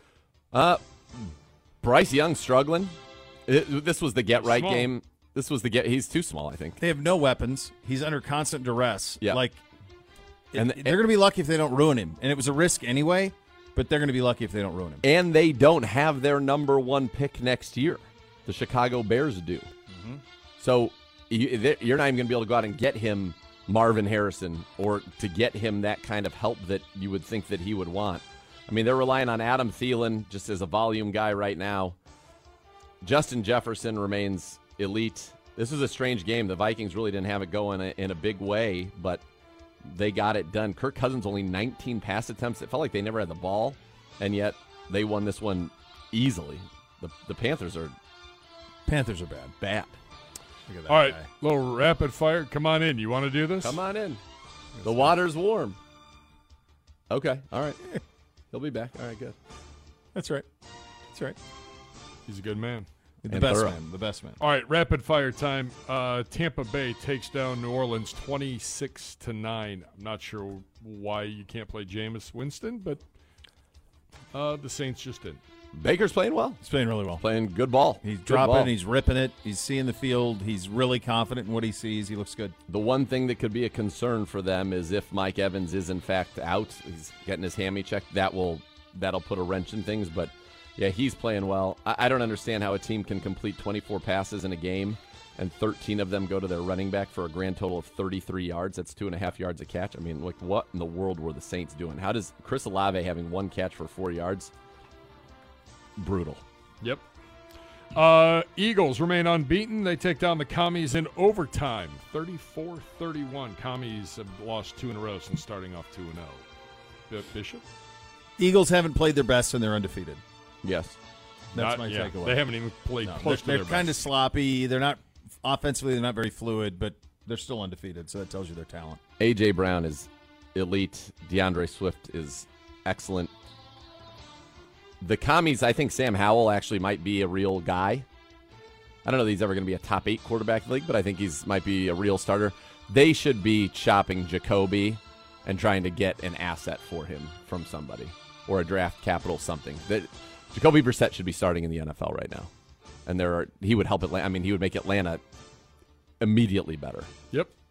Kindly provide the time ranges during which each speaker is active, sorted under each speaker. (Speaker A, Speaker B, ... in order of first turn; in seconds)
Speaker A: 0.5-3.0, 3.5-6.8, 10.6-11.0, 15.0-19.7, 20.6-32.0, 33.0-39.2, 39.8-48.0, 49.6-50.0, 53.6-54.2, 54.8-55.8, 57.1-57.8, 58.5-59.4, 63.3-63.8, 75.7-76.6, 77.2-78.7, 82.7-104.5, 106.0-106.4, 120.6-121.0, 129.2-133.3, 135.0-138.1, 139.1-152.5, 153.1-155.2, 156.2-157.1
Speaker B: 4.4-4.9, 50.9-53.8, 62.3-62.9, 64.4-73.0, 74.3-75.4, 107.9-116.4, 117.1-117.6, 121.5-124.0
Speaker C: 6.8-9.6, 10.5-15.0, 19.9-20.2, 48.9-49.5, 50.7-51.2, 54.8-55.1, 60.1-60.5, 61.1-61.4, 63.2-64.4, 76.6-77.2, 78.0-82.6, 118.4-120.2, 121.5-122.4, 123.0-129.0